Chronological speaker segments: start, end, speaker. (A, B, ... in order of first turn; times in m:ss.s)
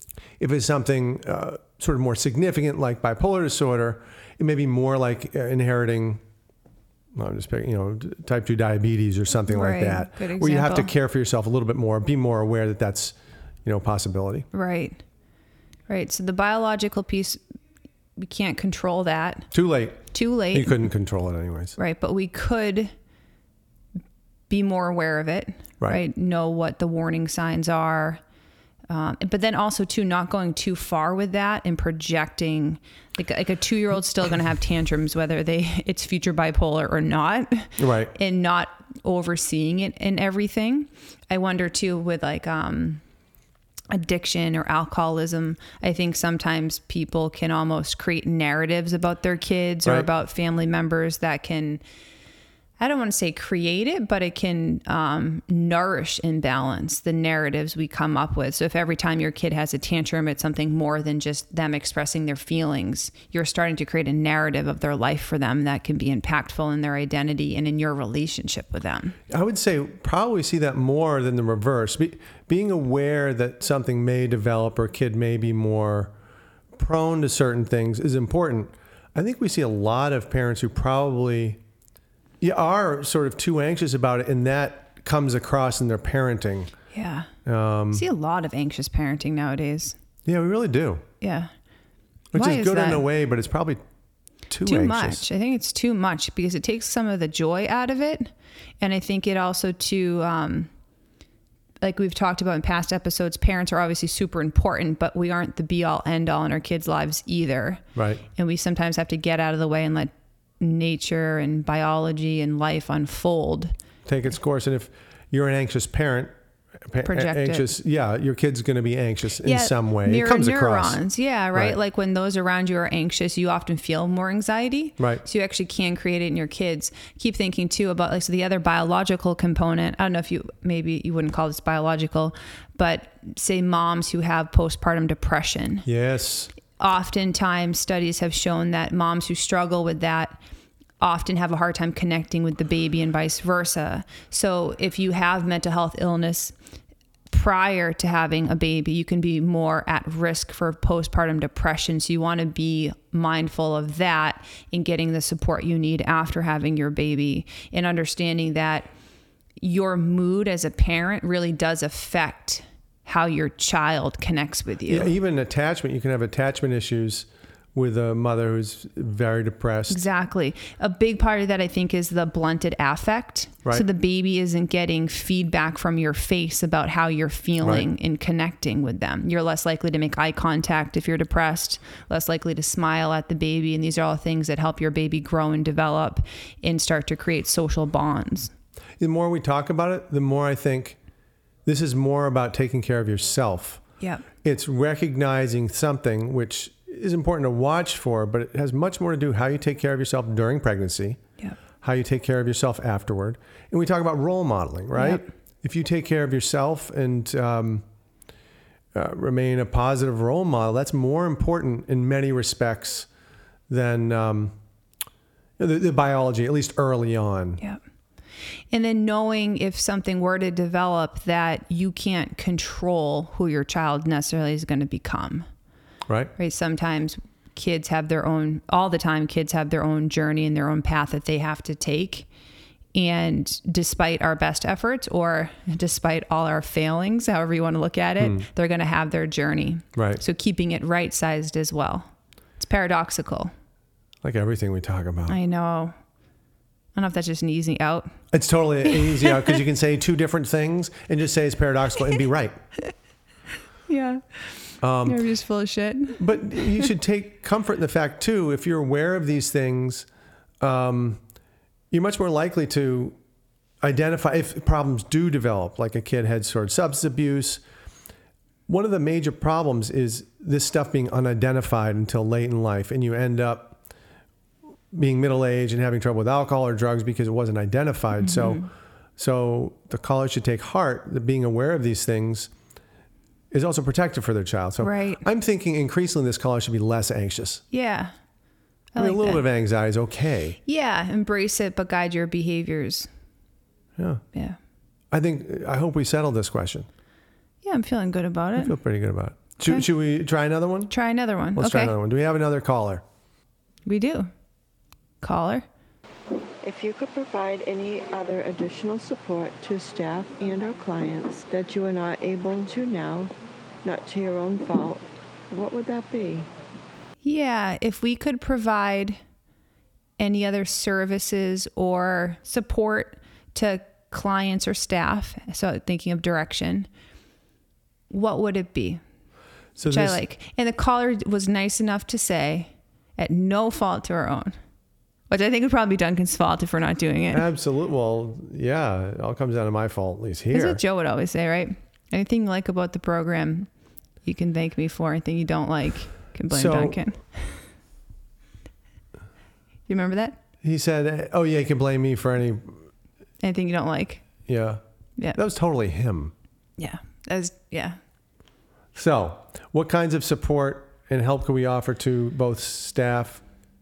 0:00.4-0:06.2 A
0:07.1-0:14.5 A
0:09.5-0:10.9 B
0:14.5-0:15.0 B
0:15.9-0:17.4 B
0:18.2-0:19.5 B
0:19.5-0:21.8 A
0:20.1-0:20.8 B
0:21.8-0:22.9 B
0:24.5-0:28.2 B
0:28.9-0:43.0 B
0:37.8-0:38.1 A
0:43.9-0:51.8 B
0:52.8-1:09.2 B
1:09.3-1:16.1 A
1:16.7-1:21.6 A
1:22.4-1:26.7 A
1:26.9-1:27.3 B
1:27.4-1:28.0 A
1:27.9-1:29.9 B
1:30.2-1:31.0 A
1:31.2-1:31.5 B
1:32.3-1:33.8 A
1:32.3-1:33.0 B
1:34.5-1:35.2 A
1:34.6-1:40.7 B
1:41.8-1:47.8 B
1:47.9-1:48.2 A
1:48.3-1:53.7 B
1:54.0-1:56.3 A
1:56.9-2:01.0 A
1:57.0-1:57.7 B
1:59.4-2:15.9 B
2:15.8-2:16.5 A
2:16.8-2:20.4 B
2:21.0-2:26.5 B
2:27.3-2:38.9 B
2:39.6-2:45.1 B
2:44.9-2:50.0 A
2:49.9-3:08.5 B
2:57.6-2:57.9 A
3:09.0-3:11.0 A
3:11.6-3:13.8 A
3:14.0-3:14.2 B
3:14.4-3:21.2 A
3:21.8-3:27.8 A
3:24.9-3:25.2 B
3:28.9-3:33.1 A
3:33.7-3:34.5 A
3:35.6-3:37.6 A
3:38.7-3:45.4 B
3:46.1-3:46.3 A
3:46.4-3:52.3 B
3:52.9-4:03.5 B
3:58.2-3:58.4 A
3:59.9-4:00.2 A
4:04.2-4:05.4 A
4:05.3-4:05.9 B
4:06.9-4:08.1 B
4:08.3-4:12.6 A
4:08.8-4:09.6 B
4:13.9-4:14.5 B
4:14.8-4:15.2 A
4:15.0-4:16.9 B
4:16.2-4:20.1 A
4:20.6-4:21.2 A
4:21.9-4:23.2 A
4:23.8-4:27.6 A
4:28.7-4:33.8 A
4:34.9-4:38.6 A
4:38.2-4:38.7 B
4:39.2-4:42.5 A
4:43.5-4:47.6 A
4:44.8-4:45.2 B
4:47.7-4:48.1 B
4:48.9-4:49.4 B
4:49.0-4:50.6 A
4:50.6-4:53.1 B
4:54.0-4:54.2 A
4:55.1-4:56.9 A
4:57.6-4:58.7 B
4:58.6-5:00.9 A
5:00.9-5:01.9 B
5:01.5-5:03.0 A
5:03.8-5:04.3 B
5:05.2-5:05.6 B
5:06.6-5:13.3 C
5:13.8-5:16.5 C
5:17.2-5:19.2 B
5:20.2-5:26.9 B
5:28.1-5:29.0 B
5:29.8-5:30.2 A
5:29.9-5:34.6 B
5:35.3-5:37.4 B
5:37.3-5:40.8 A
5:40.5-5:43.7 B
5:44.2-5:47.6 B
5:46.5-5:47.0 A
5:49.9-5:50.4 B
5:50.6-5:52.8 A
5:53.4-5:54.3 B
5:54.5-5:54.8 A
5:55.3-5:56.3 A
5:56.8-5:58.0 B
5:58.9-6:03.4 A